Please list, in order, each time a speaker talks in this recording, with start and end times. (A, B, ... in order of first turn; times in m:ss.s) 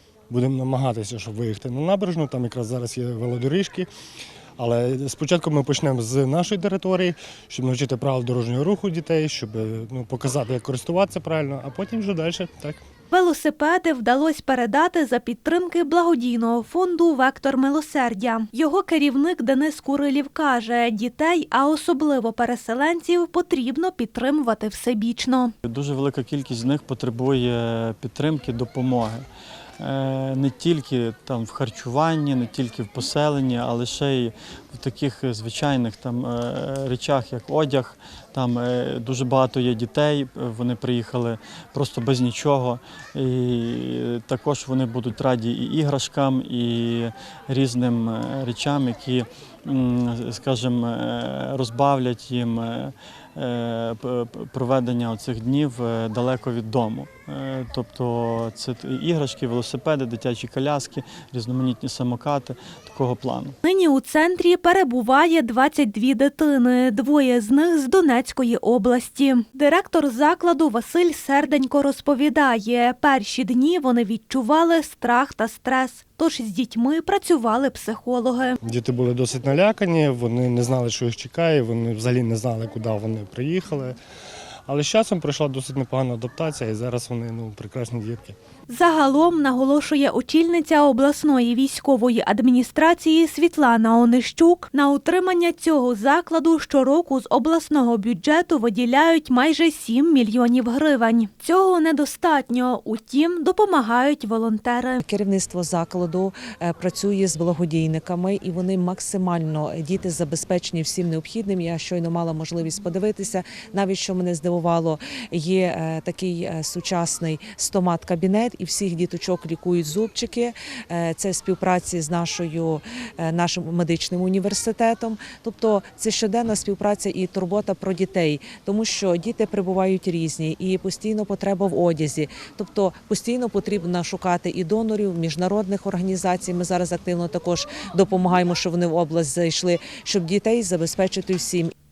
0:00.3-0:03.9 A
0:04.6-0:12.8 A
0:13.1-0:25.5 B
0:25.6-0:29.3 C
0:29.8-1:03.6 C
1:03.6-1:18.6 B
1:18.6-1:24.0 A
1:24.7-1:28.4 A
1:28.7-1:45.0 B
1:45.0-2:21.7 D